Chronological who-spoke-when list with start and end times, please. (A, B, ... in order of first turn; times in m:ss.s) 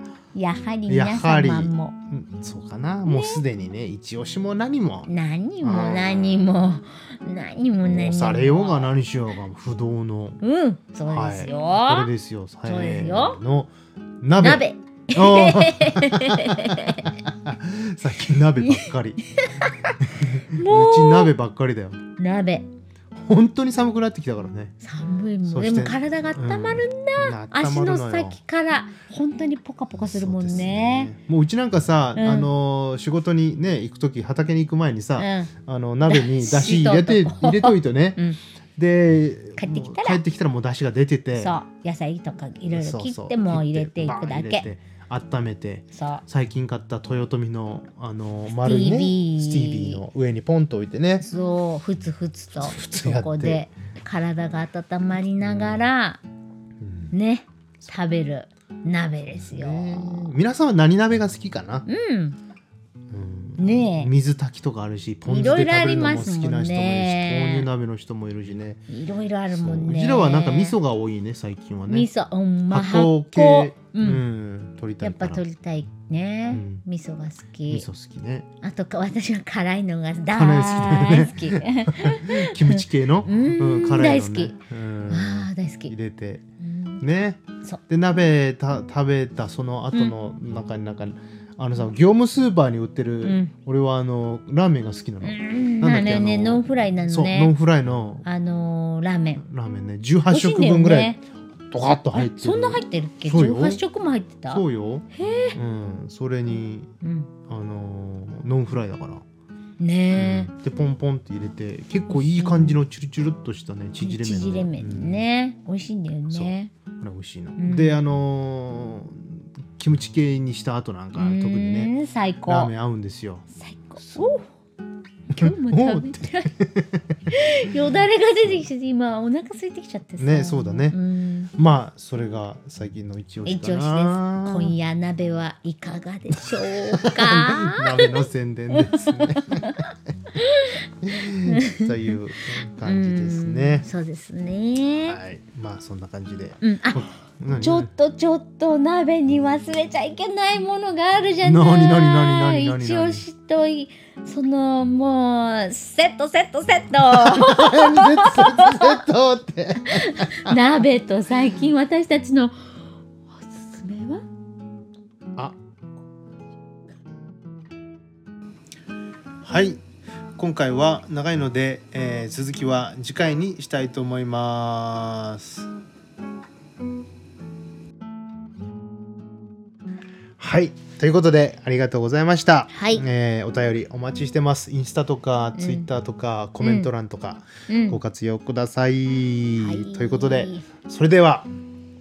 0:00.3-0:01.9 A
0:00.9-0:05.1 B
0:03.0-0:03.4 A
0:05.0-0:09.0 A
0:05.6-0:06.5 B
0:07.8-0:10.4 B
0:10.4-0:12.1 A
0:11.1-0:19.2 B
0:12.6-0:13.4 A
0:14.4-0:17.2 A
0:18.6-0:21.3 A
0:20.0-0:22.0 B
0:22.2-0:22.7 A
0:23.3-0:24.7 B
0:24.8-0:31.1 A
0:25.4-0:28.4 B
0:29.9-0:38.2 B
0:32.1-0:32.5 A
0:35.2-0:35.5 A
0:36.0-0:38.4 A
0:38.8-0:41.5 B
0:39.6-0:40.2 A
0:41.3-0:44.7 A
0:42.7-0:51.3 B
0:45.9-0:46.2 A
0:48.5-0:50.0 A
0:51.2-0:56.2 A
0:52.5-0:53.6 B
0:55.4-0:55.8 B
0:56.8-0:57.1 B
0:57.1-1:00.4 A
0:59.3-1:01.9 B
1:01.9-1:02.4 A
1:03.1-1:08.8 B
1:03.6-1:04.1 A
1:05.2-1:07.7 A
1:08.9-1:10.8 A
1:09.5-1:12.1 B
1:11.9-1:14.2 A
1:12.7-1:15.4 B
1:15.0-1:17.9 A
1:16.5-1:16.8 B
1:17.7-1:18.4 B
1:18.6-1:24.6 A
1:20.3-1:26.4 B
1:25.1-1:25.9 A
1:26.6-1:27.0 A
1:27.0-1:38.2 B
1:33.2-1:33.5 A
1:35.2-1:37.5 A
1:38.2-1:39.4 A
1:39.4-1:41.2 B
1:40.2-1:41.2 A
1:41.7-1:43.8 B
1:42.1-1:45.6 A
1:44.5-1:46.9 B
1:47.0-1:47.3 A
1:47.5-1:49.2 B
1:49.8-1:50.5 A
1:50.1-1:55.2 B
1:52.1-1:52.8 A
1:54.0-1:56.7 A
1:56.3-2:01.9 B
1:57.6-1:58.0 A
2:01.2-2:02.7 A
2:02.5-2:03.5 B
2:03.5-2:04.5 A
2:04.0-2:04.2 B
2:05.3-2:06.5 A
2:05.3-2:07.0 B
2:07.3-2:11.5 A
2:08.4-2:08.7 B
2:10.2-2:11.0 B
2:11.6-2:14.8 B
2:13.4-2:19.8 A
2:17.0-2:19.8 B
2:20.4-2:22.1 A
2:21.0-2:23.9 B
2:22.8-2:25.2 A
2:25.1-2:27.9 B
2:26.6-2:39.0 A
2:31.4-2:33.2 B
2:37.0-2:40.6 B
2:39.8-2:42.7 A
2:43.3-2:44.2 A
2:49.4-2:49.8 B
2:50.4-2:55.7 B
3:00.4-3:11.5 B
3:02.7-3:03.0 A
3:05.5-3:05.9 A
3:06.6-3:06.9 A
3:07.7-3:08.0 A
3:09.6-3:10.6 A